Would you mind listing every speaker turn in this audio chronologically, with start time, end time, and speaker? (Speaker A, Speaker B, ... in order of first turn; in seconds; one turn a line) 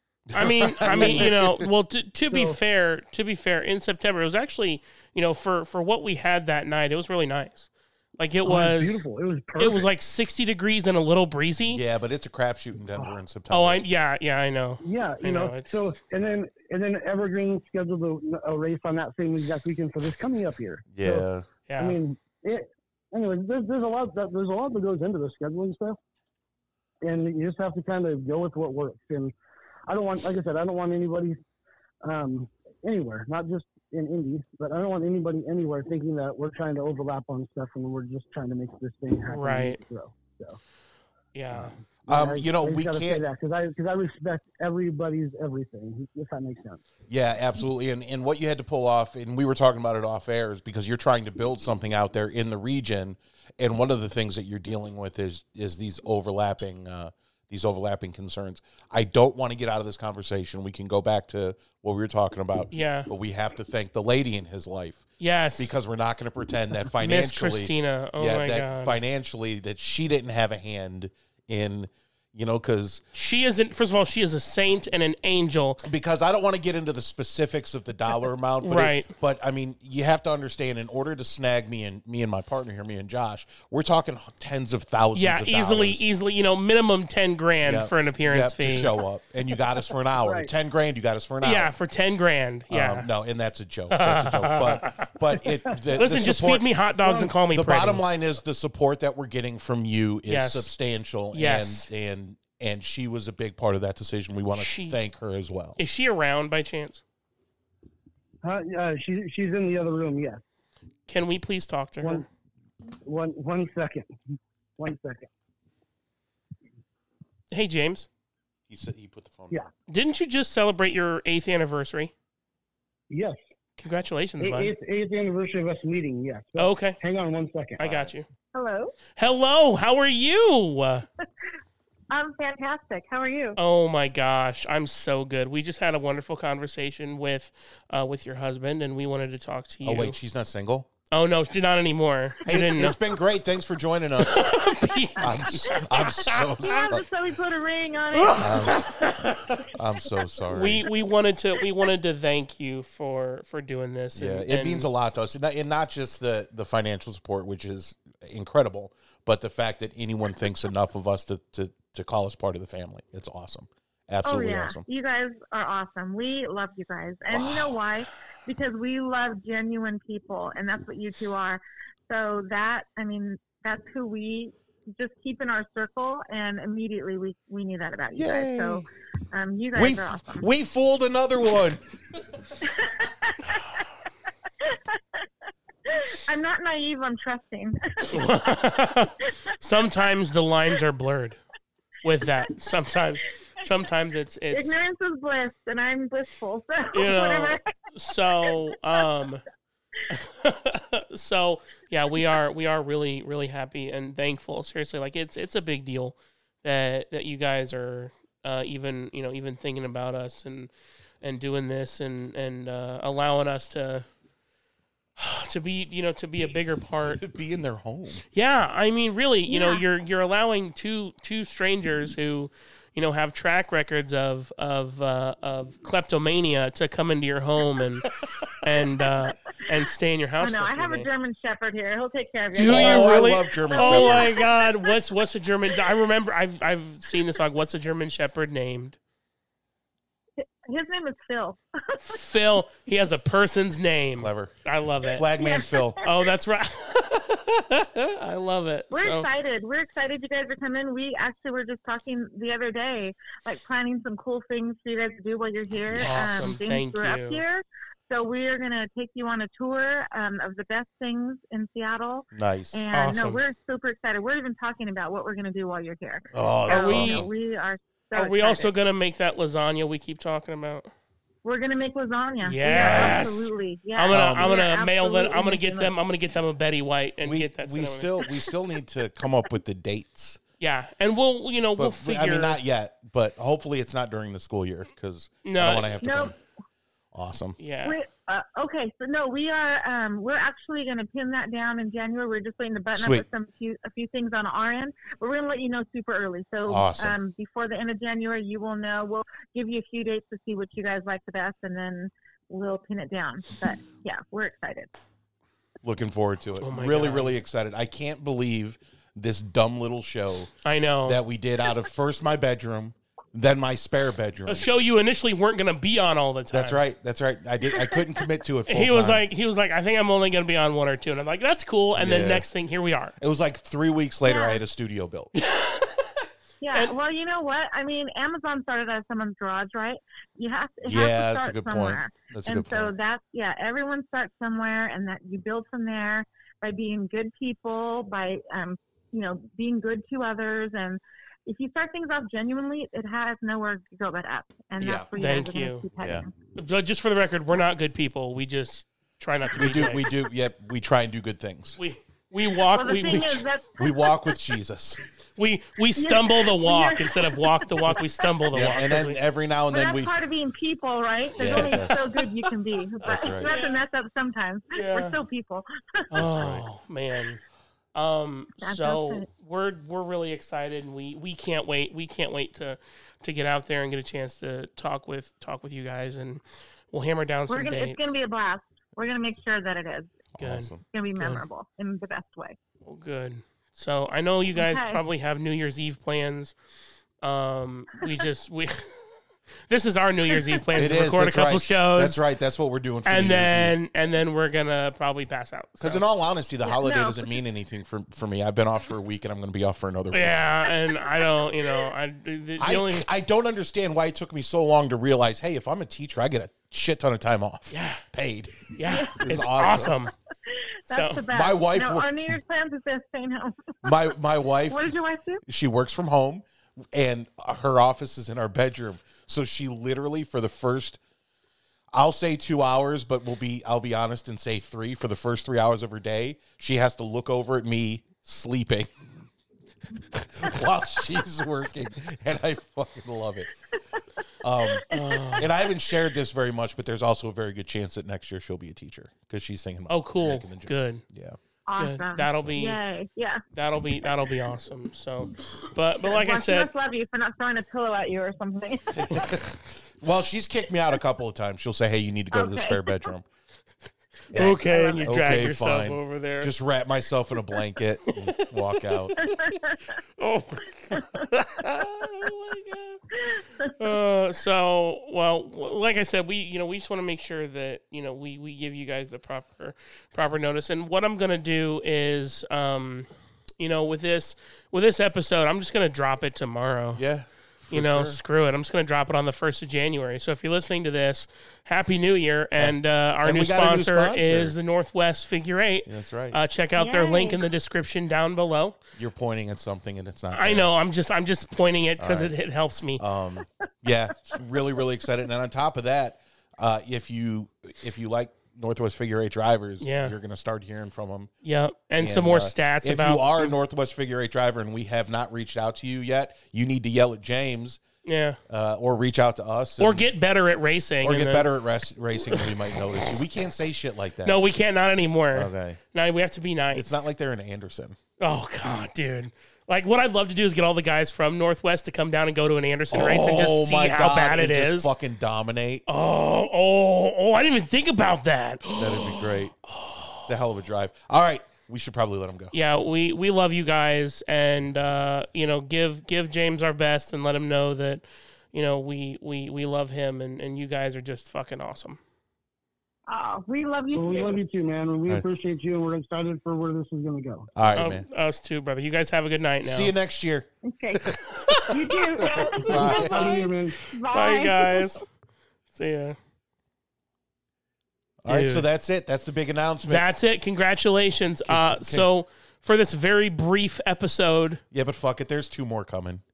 Speaker A: 0.3-1.7
Speaker B: 0.3-11.8
Speaker C: 0.8-1.3
Speaker C: 2.3-2.6
Speaker C: 8.4-9.9
Speaker A: 11.7-13.8
Speaker B: 13.5-15.9
Speaker C: 14.8-21.3
Speaker A: 20.9-21.5
Speaker B: 21.7-22.0
Speaker C: 21.8-26.0
Speaker C: 27.0-29.3
Speaker C: 29.9-31.4
Speaker C: 32.0-40.6
Speaker B: 39.3-39.8
Speaker B: 41.3-41.8
Speaker C: 42.0-46.8
Speaker A: 42.1-43.2
Speaker A: 47.1-65.0
Speaker B: 62.7-63.1
Speaker B: 65.2-65.7
Speaker A: 65.6-73.0
Speaker B: 67.0-69.0
Speaker B: 73.1-75.8
Speaker A: 75.8-86.0
Speaker B: 78.6-79.1
Speaker B: 85.2-89.0
Speaker A: 87.6-91.7
Speaker C: 90.2-90.5
Speaker B: 91.4-93.1
Speaker A: 92.7-96.7
Speaker B: 93.9-95.1
Speaker C: 95.7-96.0
Speaker B: 96.0-98.0
Speaker C: 97.0-97.3
Speaker A: 97.5-105.8
Speaker B: 100.3-100.7
Speaker B: 101.3-101.9
Speaker B: 104.5-105.0
Speaker B: 105.8-107.0
Speaker C: 108.4-110.4
Speaker B: 111.1-112.2
Speaker C: 112.0-112.3
Speaker C: 113.0-114.1
Speaker C: 114.8-115.3
Speaker B: 117.5-118.1
Speaker A: 118.7-119.7
Speaker B: 119.9-122.1
Speaker C: 123.1-123.4
Speaker B: 123.8-124.8
Speaker C: 124.4-127.8
Speaker B: 126.6-127.0
Speaker B: 127.8-128.3
Speaker A: 127.8-128.1
Speaker D: 128.5-128.9
Speaker B: 129.2-131.1
Speaker D: 132.1-133.6
Speaker B: 133.6-140.2
Speaker A: 139.8-140.9
Speaker B: 141.1-143.1
Speaker A: 142.5-144.5
Speaker B: 144.2-146.9
Speaker A: 145.2-147.1
Speaker D: 145.7-148.7
Speaker B: 148.2-149.6
Speaker A: 148.4-148.9
Speaker A: 149.7-150.8
Speaker B: 150.5-154.9
Speaker A: 154.2-164.8
Speaker D: 164.2-180.4
Speaker A: 167.3-167.8
Speaker A: 178.2-178.9
Speaker A: 179.7-181.8
Speaker D: 182.6-183.8
Speaker D: 184.6-185.2
Speaker D: 185.9-188.4
Speaker B: 188.1-191.4
Speaker B: 192.0-194.8
Speaker D: 194.5-197.6
Speaker B: 196.9-199.4
Speaker D: 198.3-198.7
Speaker B: 200.1-210.7
Speaker B: 211.2-214.1
Speaker B: 215.2-217.2
Speaker A: 217.0-218.2
Speaker B: 218.3-228.1
Speaker D: 219.5-219.8
Speaker B: 228.6-231.1
Speaker D: 230.4-234.9
Speaker B: 232.5-239.0
Speaker A: 232.7-234.3
Speaker D: 240.4-242.2
Speaker B: 242.1-245.3
Speaker A: 244.2-244.5
Speaker A: 245.1-246.0
Speaker D: 245.3-246.3
Speaker B: 246.0-249.3
Speaker D: 248.9-268.7
Speaker A: 255.7-256.1
Speaker B: 256.0-257.4
Speaker A: 262.3-262.9
Speaker B: 262.9-263.4
Speaker A: 266.3-267.3
Speaker B: 266.7-267.3
Speaker B: 268.1-270.9
Speaker D: 271.4-275.9
Speaker B: 272.4-278.3
Speaker A: 272.8-273.2
Speaker A: 274.1-274.5
Speaker A: 277.2-280.4
Speaker B: 280.6-282.6
Speaker A: 281.8-286.4
Speaker B: 285.4-285.9
Speaker D: 286.0-286.4
Speaker A: 287.1-287.6
Speaker B: 287.6-288.0
Speaker D: 287.8-304.9
Speaker A: 292.9-293.3
Speaker A: 296.7-297.2
Speaker A: 305.8-310.5
Speaker B: 306.6-307.4
Speaker B: 310.6-311.2
Speaker A: 311.1-314.7
Speaker B: 314.5-316.8
Speaker A: 316.5-319.2
Speaker B: 318.7-323.1
Speaker A: 321.9-322.5
Speaker A: 323.2-325.3
Speaker D: 324.2-324.6
Speaker B: 325.4-326.1
Speaker D: 326.6-346.3
Speaker A: 330.8-332.9
Speaker A: 344.8-345.1
Speaker B: 345.1-345.9
Speaker A: 346.0-346.2
Speaker B: 346.6-350.2
Speaker A: 349.6-351.8
Speaker B: 351.8-353.4
Speaker D: 352.7-354.3
Speaker A: 353.8-355.0
Speaker B: 355.4-359.2
Speaker D: 356.0-358.0
Speaker A: 358.5-360.2
Speaker D: 359.7-366.2
Speaker B: 361.3-363.8
Speaker A: 361.4-362.1
Speaker A: 363.0-363.6
Speaker B: 364.7-365.2
Speaker B: 366.1-367.4
Speaker A: 366.1-366.7
Speaker B: 367.9-378.1
Speaker D: 368.6-369.3
Speaker D: 377.5-380.2
Speaker A: 380.4-380.8
Speaker B: 380.4-381.4
Speaker D: 380.8-382.6
Speaker B: 382.9-386.6
Speaker D: 384.6-385.0
Speaker B: 387.2-388.9
Speaker B: 389.7-392.2
Speaker A: 390.8-393.8
Speaker B: 393.1-396.0
Speaker A: 395.8-400.4
Speaker D: 396.6-397.4
Speaker B: 400.1-403.1
Speaker D: 400.7-401.9
Speaker A: 402.6-410.0
Speaker B: 407.7-408.0
Speaker B: 408.7-410.1
Speaker D: 408.8-409.7
Speaker D: 410.5-413.9
Speaker B: 410.9-411.2
Speaker A: 411.3-412.1
Speaker A: 413.8-414.9
Speaker D: 414.7-415.4
Speaker A: 415.5-421.0
Speaker A: 421.9-428.9
Speaker A: 430.1-433.5
Speaker A: 434.4-434.9
Speaker D: 434.7-435.4
Speaker B: 434.9-435.5
Speaker A: 435.4-441.4
Speaker B: 439.9-441.0
Speaker D: 441.7-443.4
Speaker B: 441.8-442.8
Speaker B: 443.5-446.7
Speaker D: 446.0-449.3
Speaker A: 448.9-453.2
Speaker D: 452.3-453.1
Speaker A: 454.3-459.1
Speaker B: 454.3-456.5
Speaker D: 454.4-455.1
Speaker B: 458.1-459.6
Speaker D: 459.2-459.9
Speaker B: 460.2-463.0
Speaker D: 461.0-461.2
Speaker D: 463.2-463.7
Speaker B: 463.8-473.1
Speaker B: 473.6-477.0
Speaker A: 477.0-478.2
Speaker B: 477.7-488.8
Speaker A: 482.6-484.6
Speaker A: 485.9-486.4
Speaker D: 486.8-487.4
Speaker A: 489.0-490.7
Speaker B: 490.3-493.0
Speaker A: 492.0-492.3
Speaker A: 493.0-501.3
Speaker B: 499.8-500.2
Speaker B: 501.4-503.6
Speaker A: 502.0-507.8
Speaker B: 508.0-508.4
Speaker A: 508.5-510.1
Speaker B: 509.8-511.5
Speaker A: 511.0-514.4
Speaker B: 512.2-513.2
Speaker B: 514.2-517.1
Speaker A: 515.4-515.8
Speaker A: 516.7-518.0
Speaker B: 518.2-524.9
Speaker A: 522.9-525.8
Speaker B: 525.9-530.3
Speaker A: 528.8-529.5
Speaker A: 530.3-532.5
Speaker B: 532.5-542.0
Speaker D: 543.1-544.4
Speaker C: 543.9-547.5
Speaker A: 547.5-548.1
Speaker B: 547.8-549.9
Speaker A: 549.6-551.2
Speaker D: 550.6-551.1
Speaker B: 551.4-553.5
Speaker D: 551.6-554.9
Speaker A: 552.2-553.3
Speaker C: 552.6-553.8
Speaker B: 554.1-555.0
Speaker B: 555.7-556.2
Speaker A: 558.2-560.0
Speaker B: 558.3-558.7
Speaker B: 559.9-564.6
Speaker A: 561.5-562.1
Speaker A: 564.7-566.2